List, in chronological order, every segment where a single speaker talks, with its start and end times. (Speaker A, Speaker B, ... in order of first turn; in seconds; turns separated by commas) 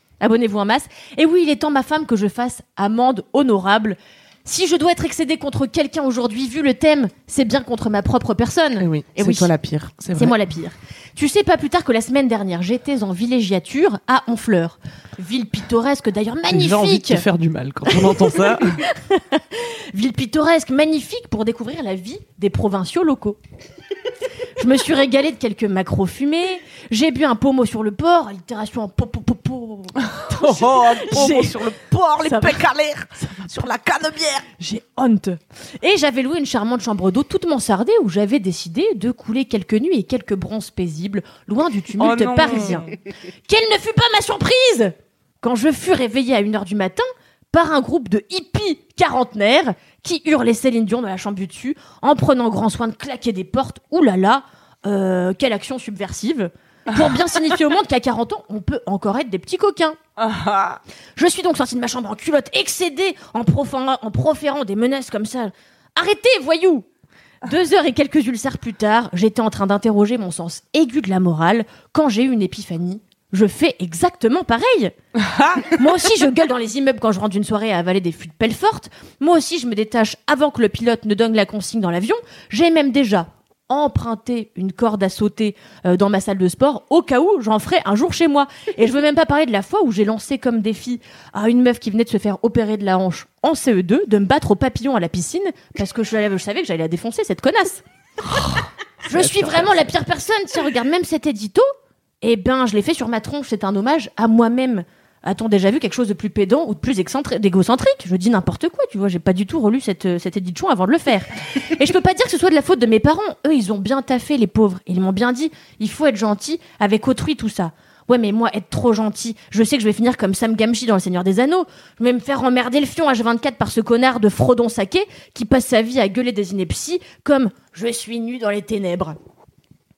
Speaker A: 0.2-9.5, Speaker B: 8.8-10.4, Speaker A: 10.1-17.2, Speaker B: 16.5-18.8, Speaker A: 17.9-23.4, Speaker A: 24.6-31.6, Speaker B: 30.1-34.5, Speaker A: 32.2-32.6, Speaker A: 34.6-42.9, Speaker B: 42.0-43.0, Speaker A: 43.5-60.0, Speaker B: 60.2-60.8, Speaker A: 61.2-66.9, Speaker A: 67.4-75.0, Speaker B: 75.2-75.8, Speaker A: 75.7-97.8, Speaker B: 98.2-99.9, Speaker A: 99.1-101.7, Speaker A: 102.2-129.2